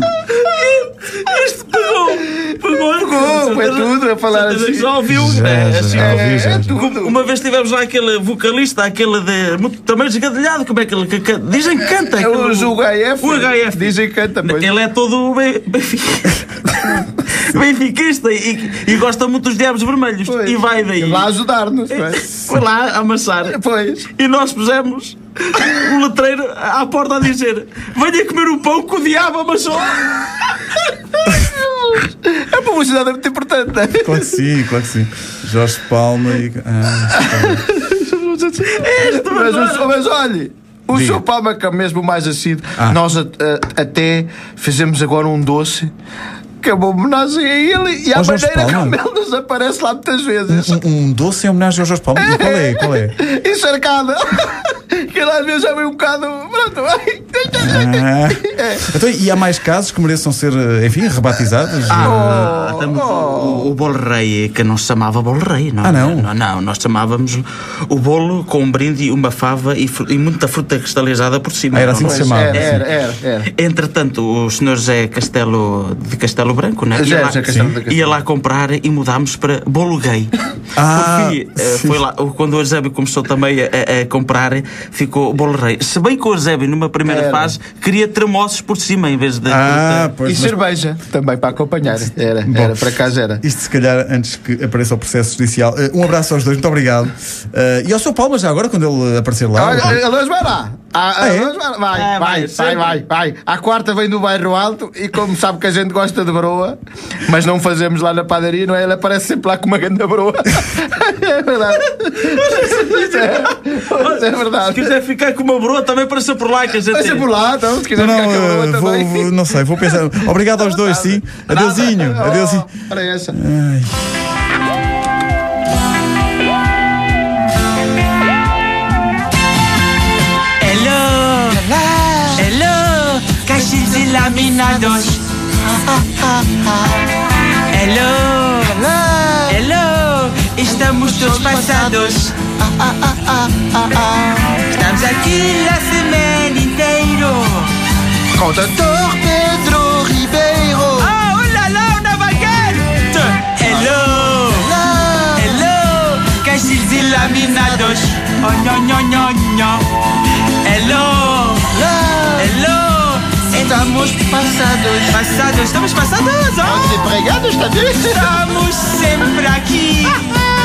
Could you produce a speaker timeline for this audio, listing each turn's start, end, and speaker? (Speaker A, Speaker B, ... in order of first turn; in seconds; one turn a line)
Speaker A: 0.2-21.3
Speaker B: 2.2-5.0
Speaker C: 5.1-6.8
Speaker B: 5.9-7.3
Speaker B: 11.9-14.7
Speaker B: 20.2-22.3
Speaker A: 21.9-23.6
Speaker B: 23.5-24.1
Speaker A: 24.1-30.8
Speaker B: 31.4-34.4
Speaker C: 34.0-37.7
Speaker B: 37.1-45.9
Speaker A: 38.6-40.0
Speaker C: 40.9-41.2
Speaker B: 46.6-50.8
Speaker C: 48.1-49.0
Speaker C: 50.5-53.1
Speaker B: 52.2-58.9
Speaker C: 57.5-62.5
Speaker A: 61.9-80.3
Speaker B: 61.9-63.7
Speaker C: 65.8-66.3
Speaker C: 71.7-72.8
Speaker B: 72.0-73.5
Speaker B: 76.9-78.2
Speaker C: 80.8-82.0
Speaker A: 80.9-90.1
Speaker B: 87.0-87.5
Speaker C: 89.5-90.6
Speaker B: 90.2-93.4
Speaker C: 92.4-92.9
Speaker C: 93.4-100.0
Speaker B: 99.5-115.0
Speaker C: 101.2-101.5
Speaker A: 101.9-103.0
Speaker A: 112.2-117.3
Speaker B: 116.9-119.3
Speaker C: 117.9-122.7
Speaker B: 120.7-123.3
Speaker C: 123.3-124.3
Speaker D: 130.6-131.7
Speaker B: 131.6-132.3
Speaker D: 132.3-135.2
Speaker B: 135.6-136.9
Speaker D: 137.6-138.9
Speaker B: 138.8-139.6
Speaker D: 139.5-142.3
Speaker B: 141.0-144.6
Speaker D: 144.6-147.7
Speaker B: 148.3-151.2
Speaker D: 151.0-154.7
Speaker B: 154.6-155.6
Speaker D: 155.3-159.8
Speaker D: 160.6-161.8
Speaker B: 161.7-162.4
Speaker D: 162.3-163.6
Speaker B: 163.5-165.1
Speaker D: 165.1-166.9
Speaker B: 166.6-168.4
Speaker D: 168.1-170.4